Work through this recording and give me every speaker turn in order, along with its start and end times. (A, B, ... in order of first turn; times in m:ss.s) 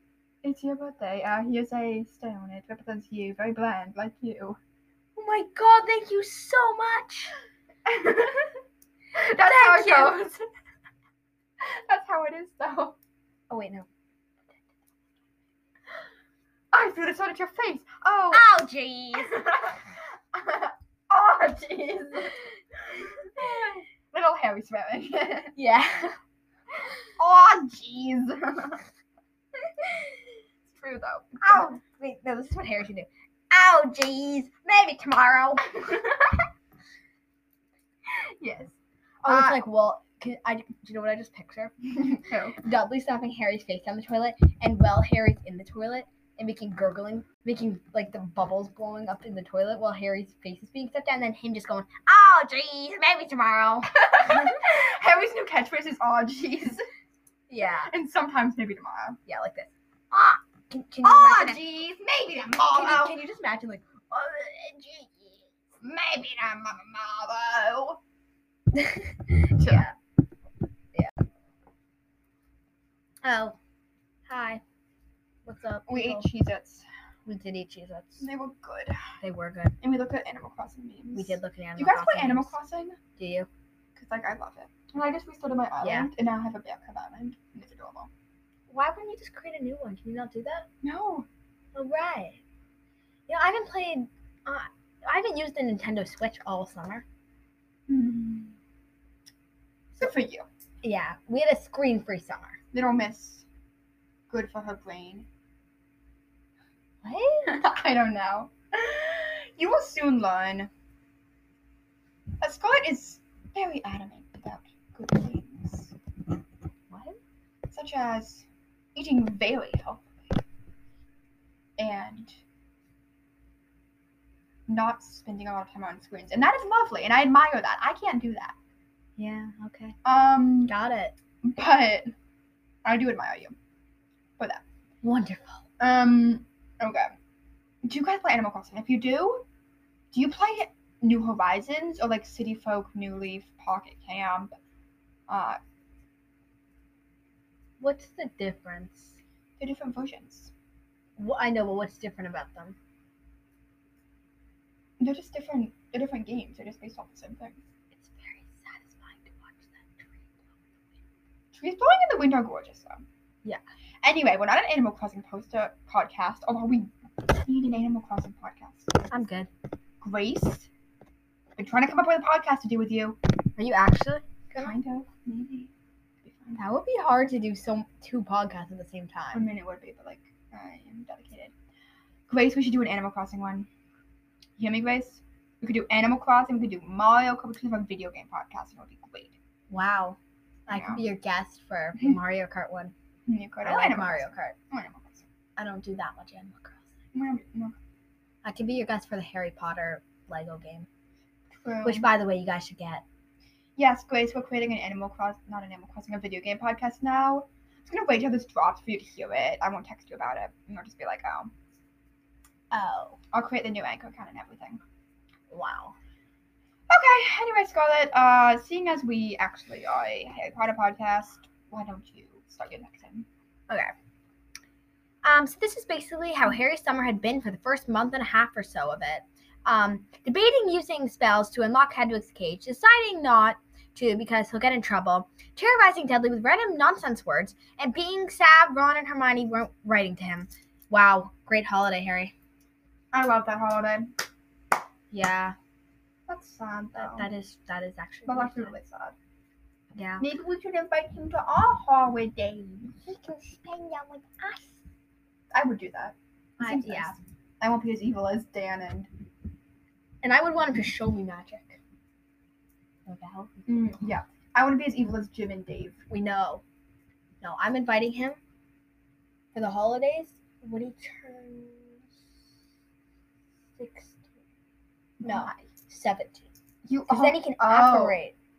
0:00.4-0:04.6 A
0:05.2-0:07.3 B
0:07.8-0:08.6 A
0:09.1-0:10.4 A
0:09.4-0:10.2 B
0:11.6-0:13.0 A
0:13.5-0:13.9 B
0:16.7-0:18.4 A
0:18.3-0:19.4 B
0:19.1-0:25.5 A
0:25.6-0:26.2 B
0:27.2-0:28.8 A
0:30.7-0:31.8 A
0:31.4-0:35.8 B
0:35.8-0:36.2 A
0:38.1-0:38.7 A
0:39.2-0:54.5 B
0:39.2-0:39.6 A
0:42.2-0:42.6 A
0:54.0-0:56.8 A
0:57.5-0:57.9 B
0:57.9-0:59.2 A
0:59.3-1:01.6 B
1:01.0-1:03.2 A
1:02.6-1:05.4 B
1:05.8-1:08.0 A
1:08.7-1:10.0 B
1:09.6-1:09.8 A
1:13.2-1:13.6 B
1:14.3-1:14.6 B
1:15.5-1:16.3 B
1:15.9-1:16.9 A
1:17.3-1:18.3 B
1:18.2-1:19.0 A
1:19.2-1:19.8 B
1:19.8-1:23.0 A
1:21.1-1:22.6 B
1:23.2-1:23.5 B
1:24.0-1:28.1 A
1:25.8-1:26.1 B
1:28.7-1:30.7 B
1:30.8-1:31.3 A
1:31.8-1:32.4 B
1:33.3-1:37.0 B
1:37.9-1:38.6 A
1:40.0-1:40.5 A
1:40.8-1:42.6 B
1:42.7-1:43.5 A
1:44.3-1:45.3 A
1:47.0-1:47.6 B
1:47.4-1:50.7 A
1:52.4-1:56.0 A
1:56.9-1:57.2 B
1:57.7-2:00.4 A
2:01.8-2:02.4 A
2:04.7-2:08.6 A
2:09.2-2:10.0 B
2:10.0-2:10.7 A
2:10.6-2:11.2 B
2:11.4-2:12.1 A
2:12.8-2:13.6 A
2:15.0-2:15.6 B
2:15.8-2:17.2 A
2:17.8-2:19.4 A
2:20.1-2:24.5 A
2:25.3-2:25.6 A
2:27.8-2:29.2 B
2:29.6-2:30.5 A
2:31.2-2:32.8 B
2:35.0-2:37.6 A
2:38.0-2:40.2 B
2:41.5-2:43.0 A
2:44.0-2:49.1 A
2:49.1-2:49.5 B
2:50.0-2:50.7 A
2:51.6-2:53.2 A
2:53.6-2:54.8 B
2:54.6-2:55.7 A
2:56.2-2:56.6 A
2:56.6-2:59.5 B
2:59.3-3:01.5 A
3:02.3-3:03.7 A
3:04.6-3:09.3 A
3:09.7-3:12.9 B
3:10.7-3:11.0 A
3:13.3-3:15.2 A
3:13.6-3:14.6 B
3:15.6-3:16.8 B
3:17.1-3:17.8 A
3:18.4-3:20.9 B
3:21.6-3:22.1 A
3:21.8-3:23.0 B
3:23.8-3:31.5 A
3:32.7-3:33.2 B
3:33.3-3:34.8 A
3:35.5-3:36.0 B
3:36.9-3:43.3 A
3:45.2-4:02.3 B
4:03.1-4:04.1 A
4:05.1-4:05.6 B
4:06.3-4:07.3 A
4:07.0-4:08.8 B
4:08.3-4:09.2 A
4:10.0-4:10.3 B
4:10.2-4:13.0 A
4:13.0-4:14.8 B
4:15.5-4:19.1 A
4:16.6-4:17.2 B
4:20.2-4:21.8 B
4:23.1-4:23.8 B
4:23.7-4:26.0 A
4:26.1-4:26.6 B
4:27.4-4:28.4 B
4:29.5-4:32.1 B
4:33.8-4:34.3 B
4:35.2-4:35.7 A
4:35.2-4:36.5 B
4:36.9-4:38.2 A
4:37.1-4:38.4 B